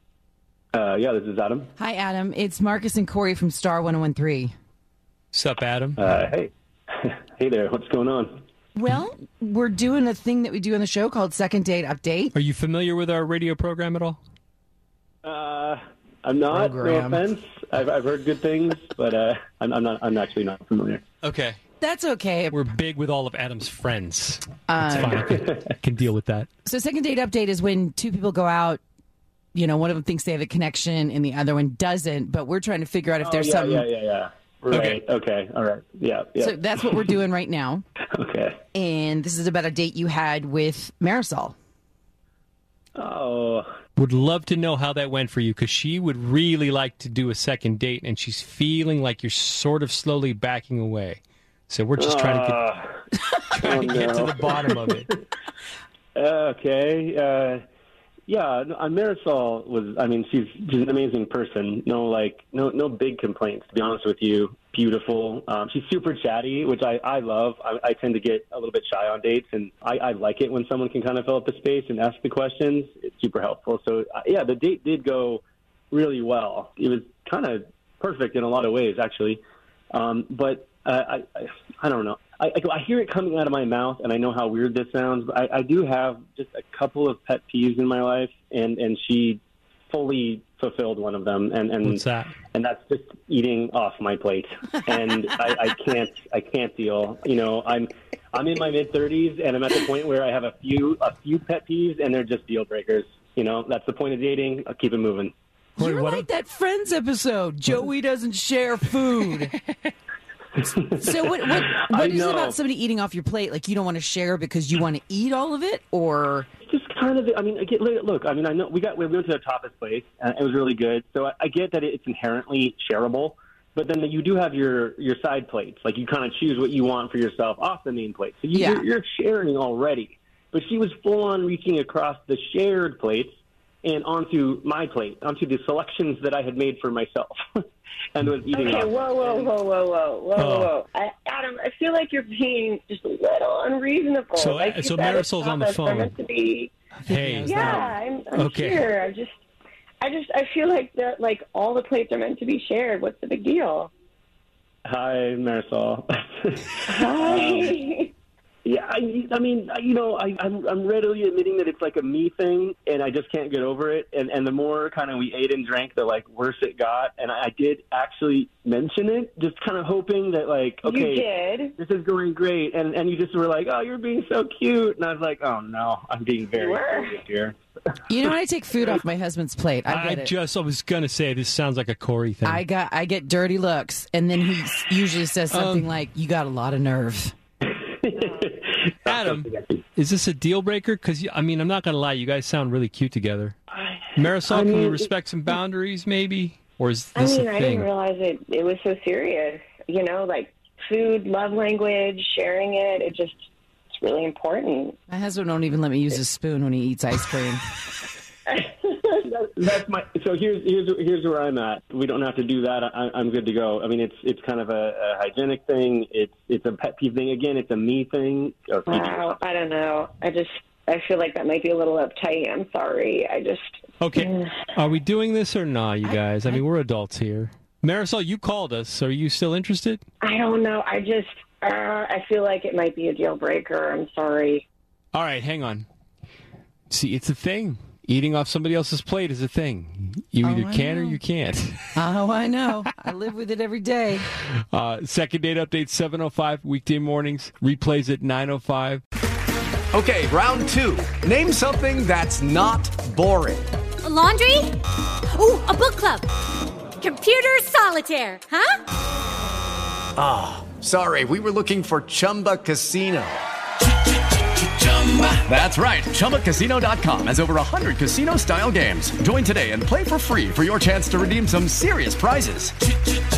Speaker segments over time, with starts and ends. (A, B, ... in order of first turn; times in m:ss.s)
0:00.7-0:01.7 A
0:01.8-0:04.5 B
0:05.3-0:06.0 C
0:06.0-0:08.4 A
0:08.7-0:12.3 B
0:12.3-0:14.2 C
0:15.2-0:21.0 A
0:16.5-0:17.2 B
0:21.2-0:21.6 C
0:21.8-0:22.6 B
0:22.5-0:26.5 C
0:24.7-0:25.2 B
0:25.0-0:25.6 A
0:26.6-0:28.8 B
0:29.5-0:33.9 B
0:33.2-0:37.0 A
0:34.7-0:35.0 C
0:36.4-0:37.8 B
0:38.1-0:38.6 A
0:38.7-0:41.5 B
0:43.0-0:43.7 A
0:44.0-0:52.6 C
0:52.0-0:52.9 A
0:53.5-0:55.1 C
0:53.6-0:55.2 A
0:56.2-0:57.6 A
0:58.3-1:19.4 A
1:19.9-1:45.3 A
1:31.8-1:32.3 C
1:45.8-1:46.2 C
1:45.8-1:49.6 B
1:50.8-1:56.5 B
1:51.6-1:52.6 A
1:56.6-2:17.3 A
2:08.5-2:08.8 B
2:18.1-2:19.5 A
2:18.5-2:26.7 D
2:20.4-2:20.7 C
2:24.3-2:26.1 C
2:27.0-2:27.7 C
2:27.0-2:27.9 B
2:27.4-2:29.3 D
2:28.3-2:28.9 C
2:30.0-2:33.9 D
2:34.8-2:37.7 A
2:36.9-2:38.1 D
2:38.6-2:51.2 A
2:50.8-2:51.8 D
2:51.8-2:57.6 A
2:56.5-2:57.2 D
2:58.1-3:00.3 B
2:59.9-3:02.6 C
3:02.4-3:07.3 B
3:05.5-3:05.9 C
3:07.6-3:09.8 A
3:08.1-3:08.6 D
3:09.0-3:13.6 C
3:13.7-3:14.8 A
3:14.2-3:17.9 C
3:14.8-3:15.0 D
3:17.1-3:25.0 D
3:25.1-3:27.6 B
3:28.5-3:29.2 D
3:29.3-3:39.3 A
3:38.9-3:44.6 D
3:44.0-3:50.0 C
3:46.0-3:46.6 B
3:50.2-3:54.6 D
3:55.1-3:55.9 C
3:56.9-4:01.9 C
4:00.4-4:01.2 B
4:01.9-4:04.2 B
4:04.5-4:09.0 C
4:09.9-4:13.6 E
4:14.0-4:14.8 F
4:15.3-4:16.3 F
4:17.0-4:18.8 F
4:20.2-4:23.4 E
4:25.1-4:32.8 E